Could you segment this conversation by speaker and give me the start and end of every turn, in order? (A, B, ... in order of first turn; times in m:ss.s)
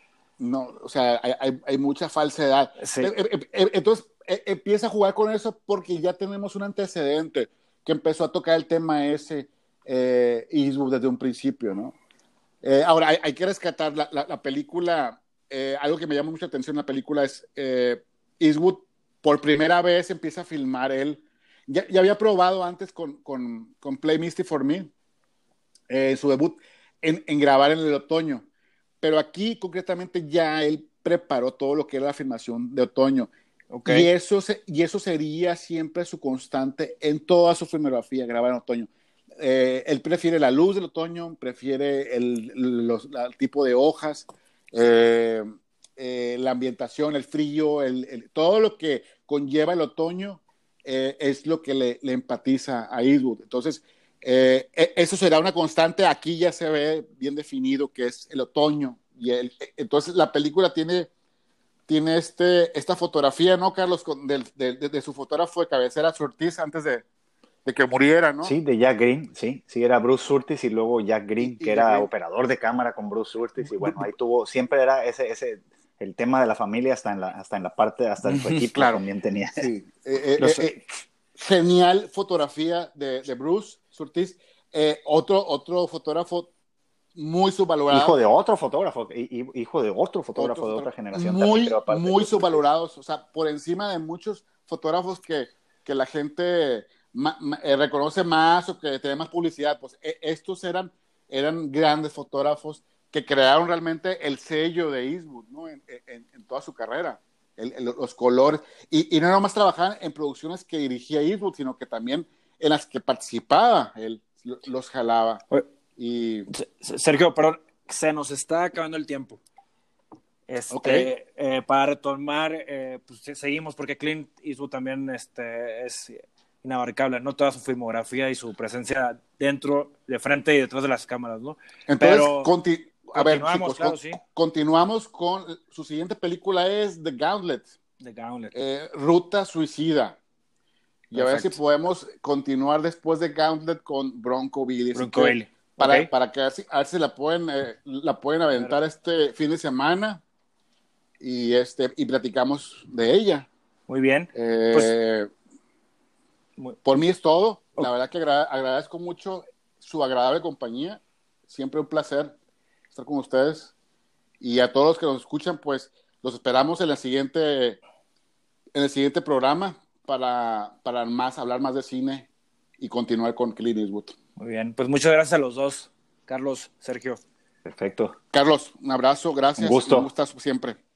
0:00.4-0:12.0 A
0:02.8-0:03.1 B
0:12.6-0:24.9 A
0:25.9-0:28.5 A
0:29.0-0:33.3 A
0:33.7-0:34.1 B
0:33.8-0:45.5 A
0:46.0-1:01.1 A
1:01.9-1:07.0 A
1:07.6-1:08.5 A
1:08.4-1:19.7 C
1:11.4-1:12.1 A
1:18.2-1:18.7 B
1:18.7-1:19.0 A
1:19.6-1:26.5 A
1:20.4-1:20.7 B
1:27.2-1:28.2 A
1:27.9-1:32.6 C
1:30.4-1:55.4 A
1:56.0-1:56.5 A
1:56.5-1:59.4 B
2:00.5-2:12.5 B
2:00.7-2:01.1 A
2:11.9-2:17.7 A
2:13.1-2:14.2 B
2:18.0-2:18.6 B
2:18.5-2:20.2 A
2:21.1-2:30.2 A
2:21.2-2:21.6 B
2:24.9-2:26.1 B
2:31.2-2:33.5 A
2:33.9-2:34.9 B
2:34.4-2:35.3 A
2:36.8-2:42.4 A
2:42.9-2:43.7 A
2:44.4-2:47.8 A
2:48.7-2:52.3 A
2:52.8-2:54.2 A
2:54.4-2:57.2 B
2:57.6-2:58.2 C
2:58.3-3:00.8 A
2:59.6-3:00.1 C